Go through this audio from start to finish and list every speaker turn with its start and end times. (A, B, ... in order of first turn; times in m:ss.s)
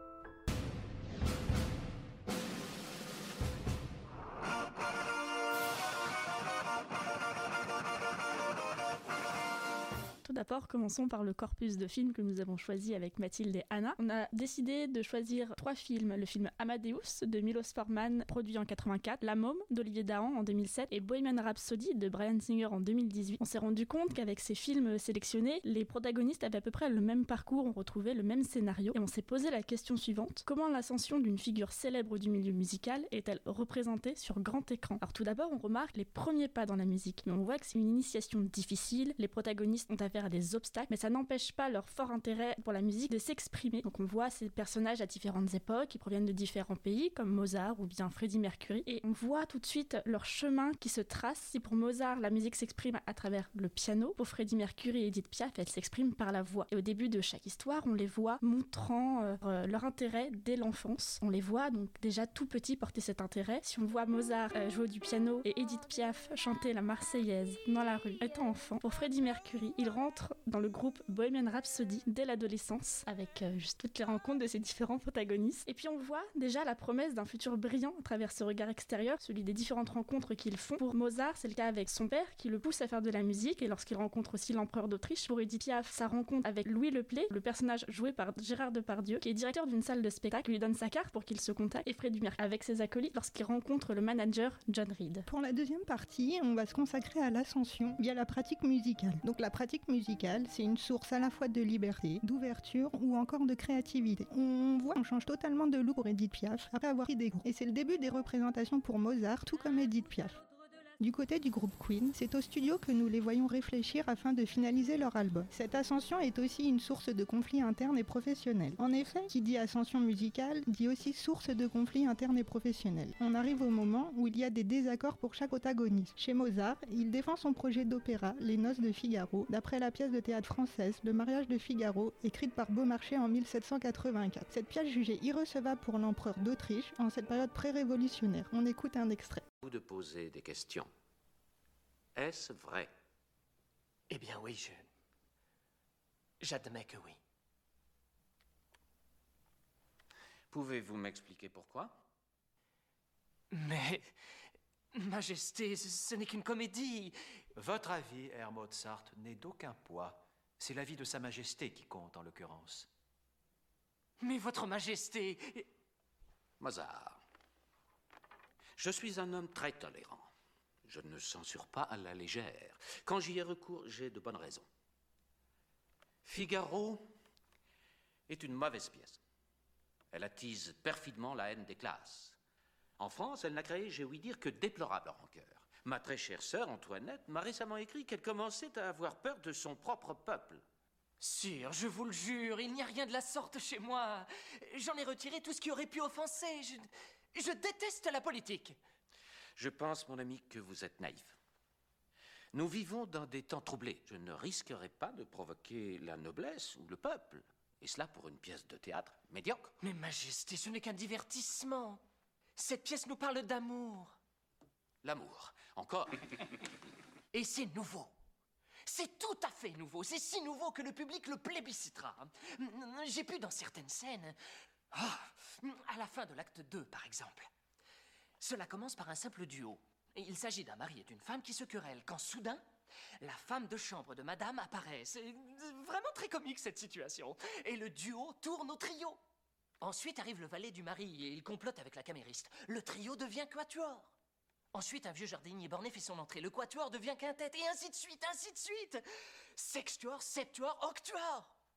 0:10.2-1:35.3 A
1:35.3-1:50.4 B
1:51.0-2:19.4 B
2:19.6-2:20.9 C
2:22.2-2:22.9 C
2:24.1-2:24.8 D
2:26.4-2:27.2 D
2:30.5-2:31.9 C
2:33.5-2:34.0 D
2:35.0-2:37.1 D
2:37.6-2:42.9 E
2:44.2-2:45.7 D
2:46.6-2:47.2 C
2:48.8-2:50.3 C
2:50.9-2:54.7 C
2:56.2-2:57.0 C
2:58.3-2:59.2 C
3:00.1-3:02.4 C
3:03.0-3:10.6 C
3:11.2-3:18.8 D
3:19.6-3:21.4 C
3:22.5-3:29.7 C
3:29.8-3:32.0 D
3:32.6-3:34.1 D
3:35.0-3:36.4 C
3:37.3-3:38.1 D
3:38.9-3:44.4 D
3:44.9-3:47.5 D
3:48.4-3:52.6 D
3:53.2-3:59.2 D
3:59.8-4:04.1 D
4:04.7-4:09.0 D
4:09.6-4:11.5 D